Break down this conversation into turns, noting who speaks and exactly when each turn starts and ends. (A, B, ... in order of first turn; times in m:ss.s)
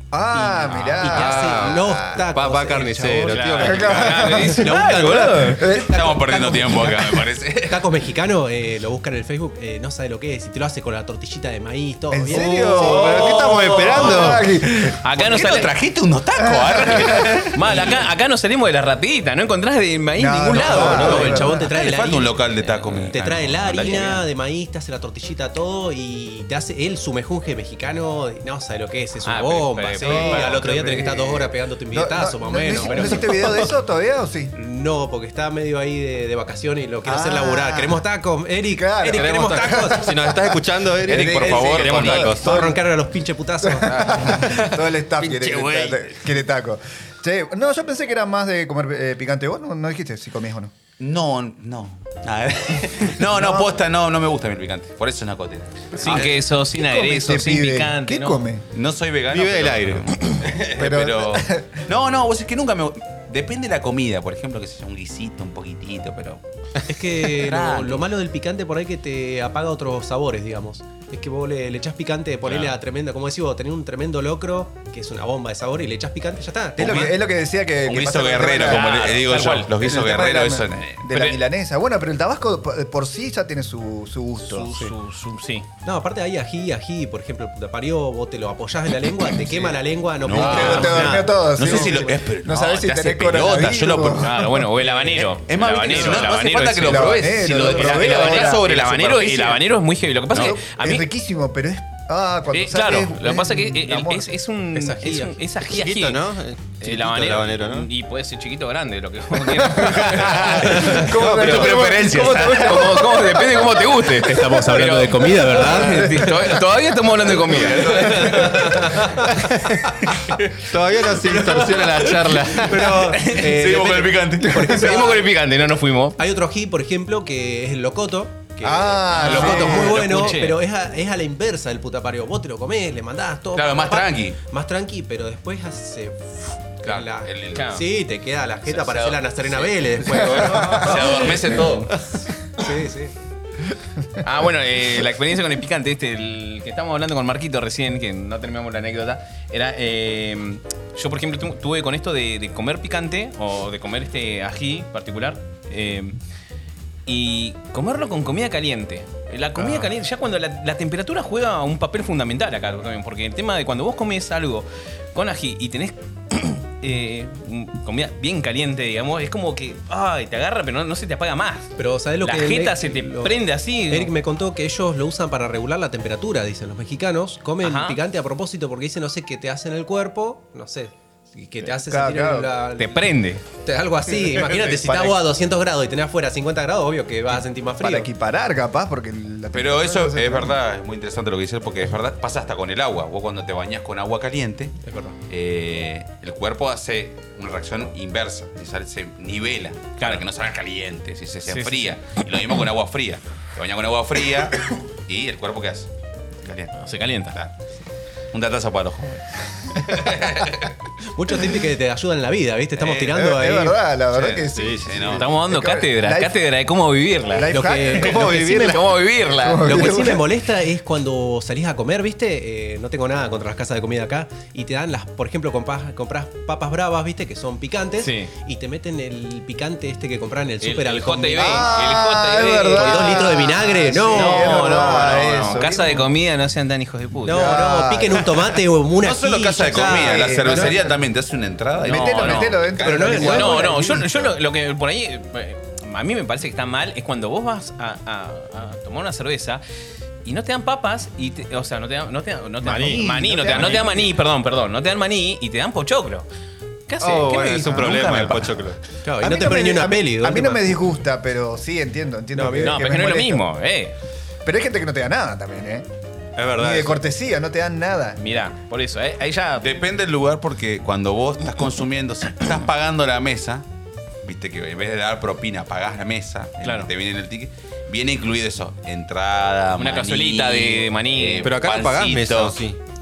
0:00.1-0:02.3 A
0:00.3-0:03.7 B
0:01.1-0:04.6 C
0:03.3-0:05.7 D
0:03.6-0:06.8 A
0:04.4-0:13.2 B
0:05.7-0:07.9 E
0:12.1-0:15.0 A
0:12.3-0:14.5 C
0:13.1-0:14.4 D
0:14.8-0:18.0 E
0:15.0-0:15.8 D
0:16.4-0:17.5 A
0:17.0-0:21.6 D
0:20.2-0:21.7 A
0:20.6-0:22.4 B
0:20.7-0:21.4 C
0:21.6-0:24.2 E
0:22.6-0:22.9 D
0:22.9-0:33.7 B
0:29.2-0:30.7 D
0:30.0-0:34.5 A
0:34.6-0:40.1 B
0:37.0-0:38.0 A
0:38.7-0:42.8 A
0:39.1-0:42.6 C
0:41.0-0:42.4 E
0:41.4-0:44.5 B
0:43.6-0:50.7 A
0:44.0-0:46.2 E
0:51.0-0:56.3 E
0:53.3-0:53.7 A
0:56.0-0:58.5 D
0:56.0-0:58.6 A
0:58.7-1:06.4 E
0:59.3-1:00.2 C
1:00.7-1:01.8 A
1:06.9-1:17.1 B
1:07.2-1:08.0 E
1:16.8-1:18.9 A
1:16.8-1:17.2 E
1:17.8-1:21.0 E
1:18.6-1:19.7 D
1:19.8-1:24.8 A
1:21.0-1:21.4 D
1:24.5-1:25.7 D
1:25.8-1:32.1 B
1:30.2-1:34.4 E
1:30.4-1:35.3 A
1:30.6-1:31.2 D
1:34.2-1:41.1 D
1:35.4-1:39.6 E
1:36.8-1:38.6 A
1:40.3-1:44.3 A
1:42.5-1:46.3 D
1:44.8-1:45.4 B
1:45.6-1:47.9 C
1:46.8-1:59.0 D
1:49.8-1:53.7 A
1:50.8-1:51.8 C
1:51.2-1:52.8 E
1:54.1-1:56.4 B
1:57.5-1:58.9 E
1:58.0-1:59.3 B
2:00.2-2:00.5 D
2:00.6-2:03.3 C
2:01.2-2:03.7 D
2:02.7-2:05.3 B
2:02.7-2:04.8 E
2:04.5-2:06.2 D
2:06.2-2:21.7 B
2:08.6-2:10.1 A
2:09.2-2:10.6 D
2:13.5-2:14.4 E
2:16.8-2:17.7 E
2:17.6-2:17.9 D
2:18.7-2:22.0 E
2:20.6-2:20.9 A
2:22.5-2:23.1 B
2:24.2-2:36.2 D
2:37.1-2:54.1 D
2:51.8-2:53.4 B
2:53.9-3:08.1 B
2:57.6-2:58.0 D
3:01.6-3:02.5 A
3:02.8-3:03.4 D
3:04.5-3:05.2 A
3:07.8-3:10.6 A
3:09.5-3:14.8 E
3:14.8-3:15.2 B
3:15.3-3:25.9 E
3:21.5-3:21.9 D
3:26.4-3:26.8 E
3:26.8-3:27.4 D
3:28.3-3:30.7 E
3:31.1-3:33.8 B
3:32.8-3:33.2 E
3:33.1-3:36.4 A
3:34.2-3:35.3 E
3:34.5-3:35.3 C
3:35.2-3:40.1 D
3:37.3-3:40.3 A
3:37.5-3:38.3 B
3:37.9-3:38.9 C
3:39.6-3:51.7 B
3:48.0-3:48.3 D
3:50.6-3:53.6 D
3:51.4-3:56.1 A
3:52.7-3:55.3 B
3:54.1-3:57.7 D
3:57.2-4:00.8 B
3:57.3-3:58.3 A
3:59.0-4:03.1 E
3:59.8-4:00.8 A
4:01.8-4:04.3 A
4:01.8-4:09.6 D
4:02.8-4:04.0 B
4:10.2-4:16.3 D
4:12.6-4:13.9 C
4:12.6-4:14.0 A
4:16.9-4:18.2 D
4:17.0-4:18.8 C
4:17.7-4:18.6 E
4:19.0-4:20.8 B
4:19.2-4:23.4 A
4:22.4-4:22.8 B
4:22.6-4:23.9 D
4:24.4-4:25.9 A
4:26.4-4:27.0 C
4:26.6-4:28.2 A
4:28.2-4:29.8 D
4:29.6-4:33.6 E
4:34.2-4:42.6 E
4:36.6-4:36.9 D
4:39.8-4:41.6 D
4:41.4-4:42.8 C